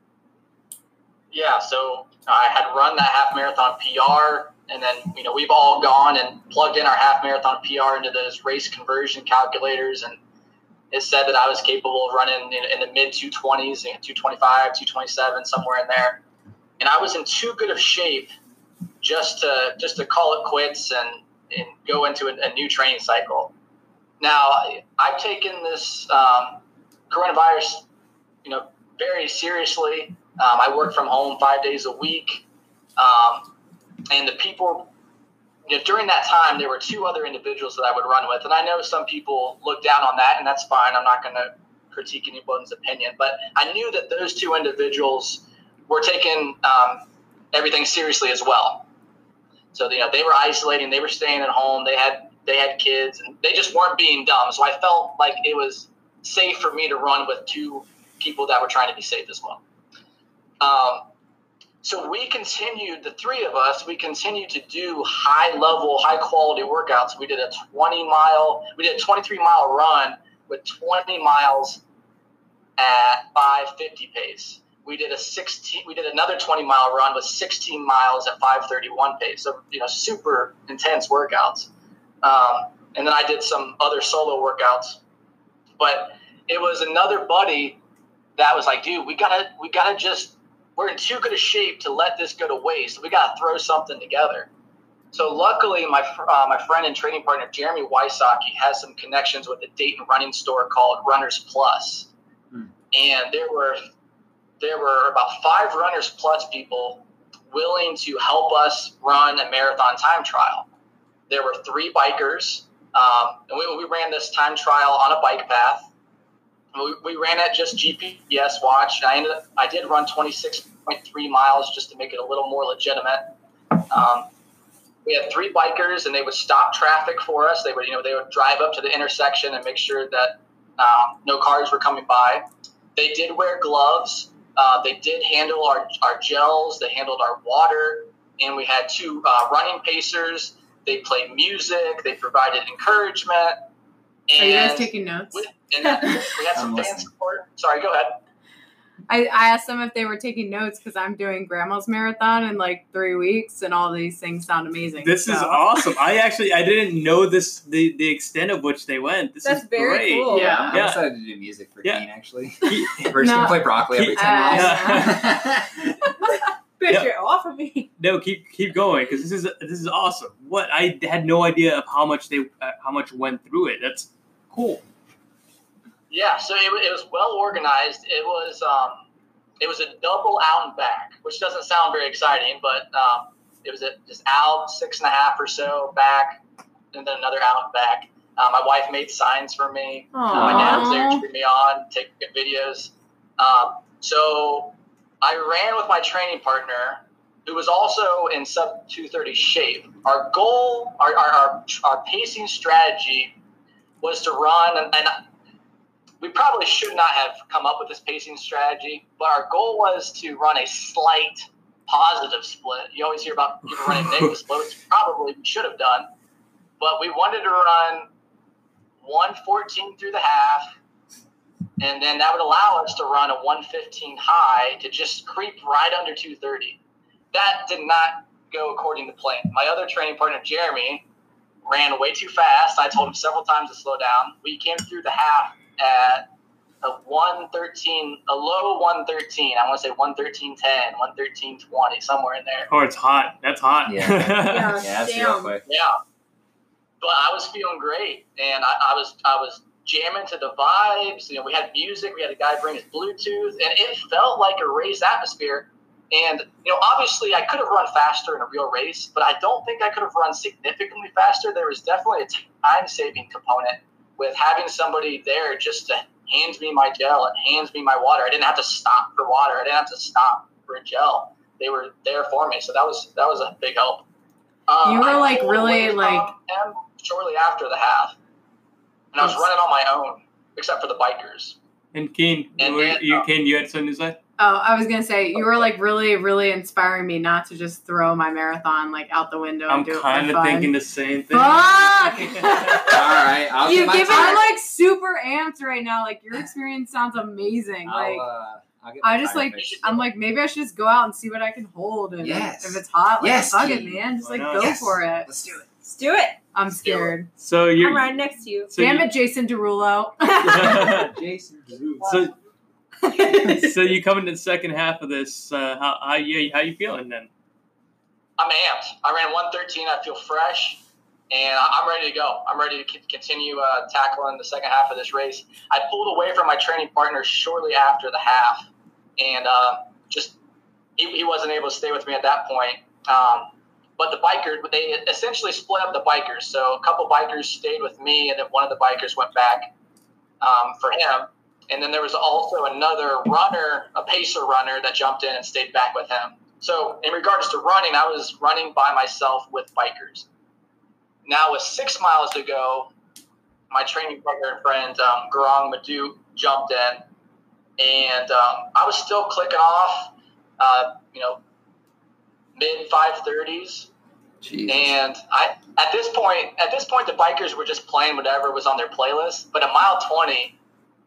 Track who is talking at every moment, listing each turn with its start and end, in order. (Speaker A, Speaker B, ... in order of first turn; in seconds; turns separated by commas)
Speaker A: 1.3-10.2, Speaker A: 10.9-16.2, Speaker A: 16.8-18.3, Speaker A: 19.0-23.5, Speaker A: 24.2-27.8, Speaker A: 28.4-32.4, Speaker A: 33.0-33.5, Speaker A: 34.1-34.9, Speaker A: 35.7-48.9, Speaker A: 49.7-59.6, Speaker A: 60.6-61.1, Speaker A: 61.8-71.8, Speaker A: 72.8-81.7, Speaker A: 82.2-85.0, Speaker A: 85.8-87.8, Speaker A: 88.4-94.5, Speaker A: 95.1-102.1, Speaker A: 102.9-103.8, Speaker A: 104.6-110.7, Speaker A: 111.3-115.9, Speaker A: 116.7-123.2, Speaker A: 123.9-124.3, Speaker A: 125.0-143.6, Speaker A: 144.3-148.2, Speaker B: 144.3-145.5, Speaker C: 146.5-147.1, Speaker B: 149.1-155.8, Speaker D: 155.0-161.1, Speaker E: 159.4-160.7, Speaker C: 160.3-166.0, Speaker D: 162.6-163.2, Speaker B: 163.2-165.2, Speaker D: 163.9-165.2, Speaker E: 166.8-167.9, Speaker D: 168.0-174.8, Speaker A: 176.1-179.0, Speaker A: 179.6-186.4, Speaker A: 186.9-203.3, Speaker E: 190.1-190.9, Speaker B: 190.3-191.2, Speaker C: 190.3-190.7, Speaker A: 204.0-205.2, Speaker A: 206.2-216.1, Speaker D: 213.9-214.3, Speaker A: 216.8-218.1, Speaker A: 219.0-220.7, Speaker A: 221.8-226.8, Speaker A: 227.3-231.1, Speaker A: 231.7-236.3, Speaker A: 236.8-242.7, Speaker D: 242.7-244.8, Speaker C: 243.8-245.6, Speaker E: 244.4-245.6, Speaker A: 245.7-245.9, Speaker A: 247.0-274.1, Speaker A: 274.7-278.1, Speaker B: 274.8-276.3, Speaker A: 279.1-281.6, Speaker D: 281.9-284.2, Speaker A: 282.6-283.2, Speaker B: 284.4-290.7, Speaker D: 289.7-292.9, Speaker B: 291.3-298.2, Speaker C: 292.9-294.4, Speaker E: 293.6-294.5, Speaker C: 297.8-299.9, Speaker B: 299.0-305.3, Speaker A: 299.6-299.9, Speaker C: 302.2-305.7, Speaker D: 304.2-304.8, Speaker E: 305.9-306.4, Speaker B: 306.5-307.3, Speaker A: 306.7-307.1, Speaker D: 307.4-309.1, Speaker E: 307.8-308.7, Speaker B: 308.8-311.1, Speaker D: 310.4-311.1, Speaker C: 310.8-312.3, Speaker D: 312.0-312.3, Speaker B: 313.1-313.6, Speaker D: 313.5-317.3, Speaker A: 318.4-330.4, Speaker A: 331.0-339.7, Speaker A: 340.4-350.2, Speaker A: 351.2-352.9, Speaker A: 353.7-357.0, Speaker A: 357.8-361.4, Speaker A: 362.6-363.9, Speaker C: 364.4-364.9, Speaker A: 364.7-370.6